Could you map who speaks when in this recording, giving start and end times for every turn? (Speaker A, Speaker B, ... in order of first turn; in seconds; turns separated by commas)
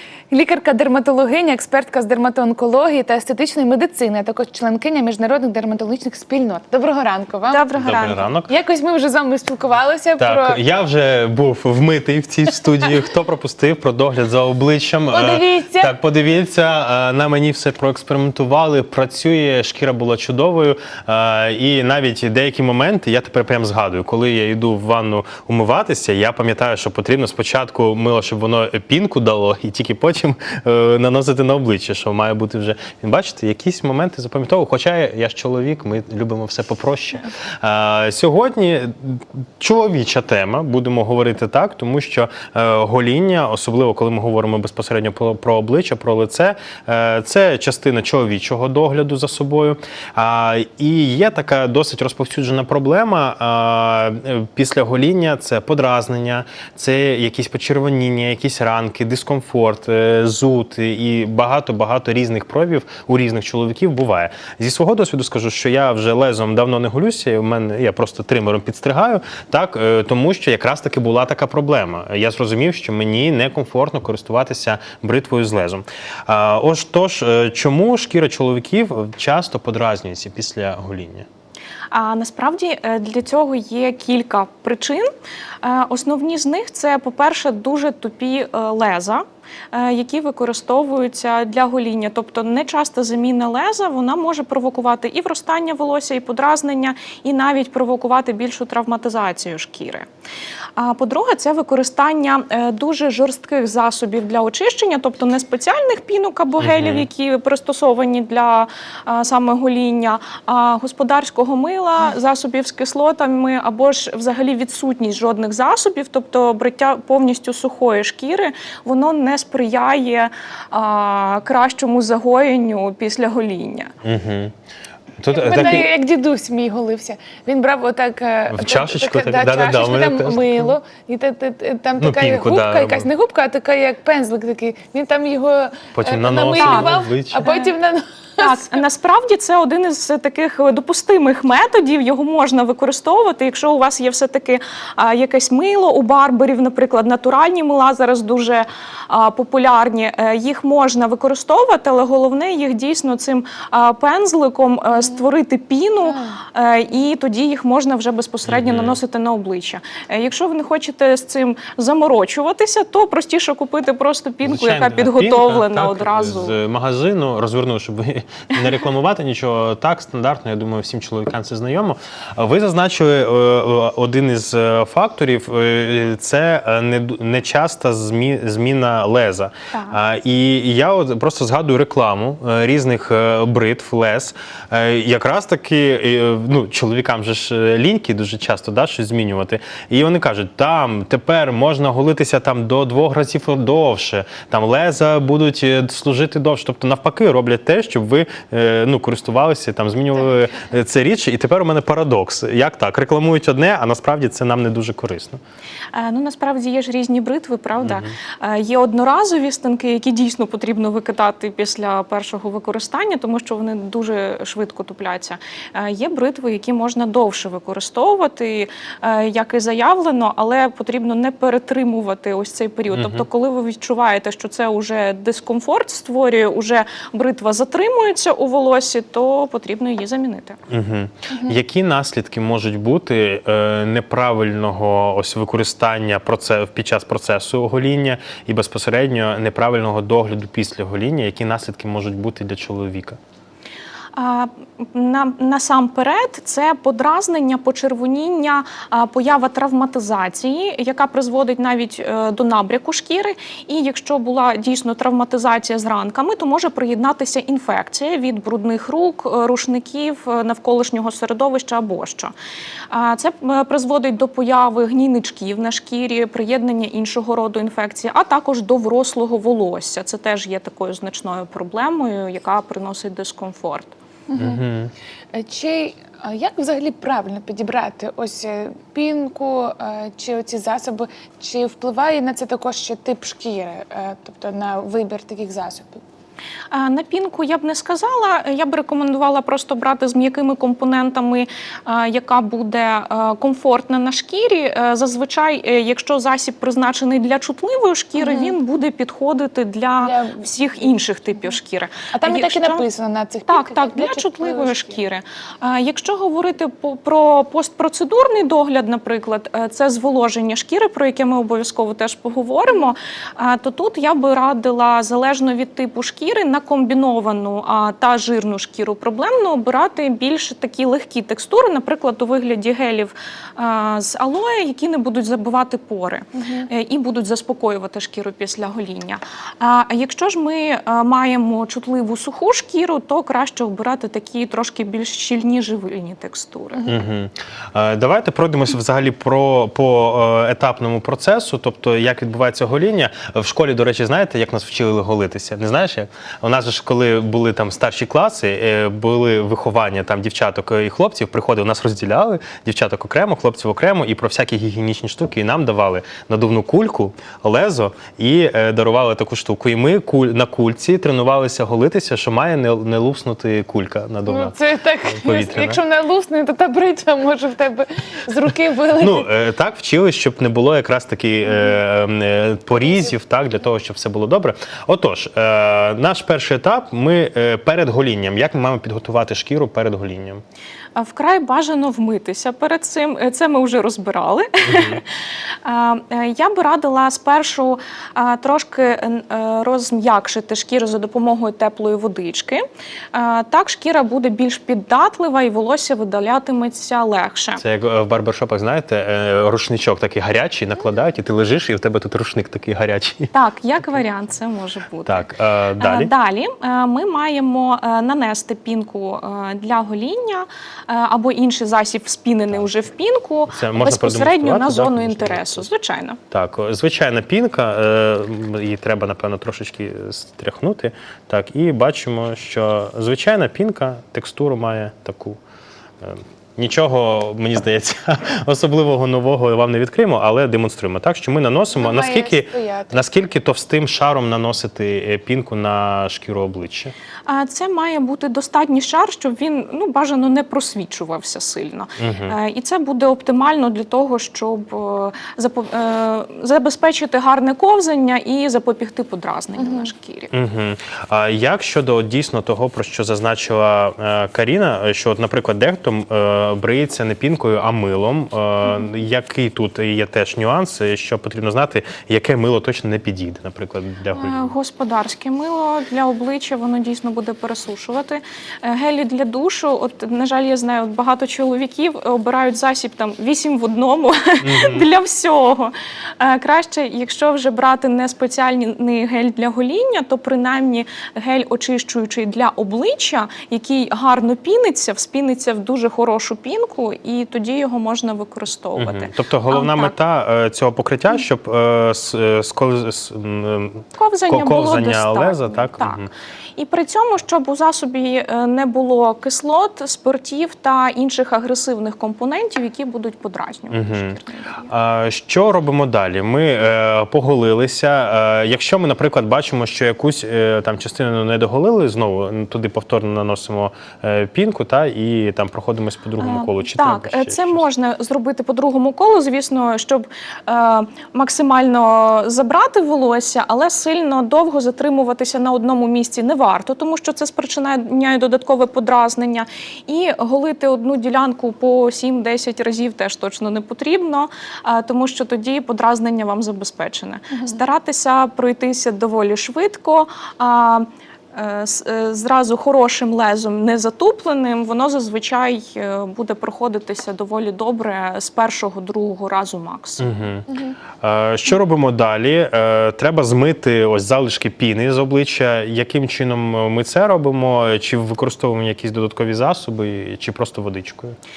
Speaker A: 0.3-7.6, Speaker B: 7.5-8.3, Speaker C: 7.8-8.5, Speaker A: 8.5-10.6, Speaker C: 10.2-81.3, Speaker A: 15.1-15.9, Speaker B: 81.9-85.1, Speaker B: 85.6-100.1, Speaker B: 100.8-123.9, Speaker C: 106.6-107.0, Speaker C: 124.0-124.5, Speaker C: 125.2-125.9, Speaker A: 125.3-138.7, Speaker C: 128.5-130.8, Speaker C: 132.0-133.1, Speaker C: 136.0-137.4, Speaker B: 136.6-137.7, Speaker B: 138.4-166.6, Speaker A: 156.1-156.4, Speaker C: 158.5-159.0, Speaker C: 164.4-205.4, Speaker B: 179.7-180.0, Speaker B: 205.9-230.6, Speaker C: 207.8-208.1, Speaker C: 222.9-223.2, Speaker C: 230.7-243.2, Speaker B: 244.2-262.3, Speaker B: 262.9-273.9, Speaker A: 274.3-274.6, Speaker C: 274.4-274.9, Speaker A: 275.3-286.0, Speaker B: 286.7-302.8, Speaker A: 298.2-298.6, Speaker A: 300.0-300.9, Speaker A: 302.1-305.0, Speaker B: 303.5-336.9, Speaker A: 326.3-326.7, Speaker C: 336.9-365.8, Speaker A: 364.3-369.3, Speaker C: 369.0-380.4, Speaker A: 372.8-373.1, Speaker B: 381.0-385.1, Speaker C: 384.7-385.0, Speaker B: 385.6-397.6, Speaker C: 397.6-403.3, Speaker B: 403.3-405.3, Speaker C: 405.1-406.1, Speaker B: 405.8-416.2, Speaker C: 413.5-415.7, Speaker C: 416.3-425.4, Speaker C: 426.0-436.9, Speaker A: 431.8-433.0, Speaker B: 437.3-450.3, Speaker C: 442.0-442.4, Speaker A: 449.6-449.9, Speaker C: 450.3-464.6, Speaker B: 464.1-489.9, Speaker C: 474.4-474.9, Speaker C: 488.8-496.1, Speaker B: 493.9-504.7, Speaker C: 503.7-517.6, Speaker B: 516.2-550.1, Speaker C: 550.0-561.2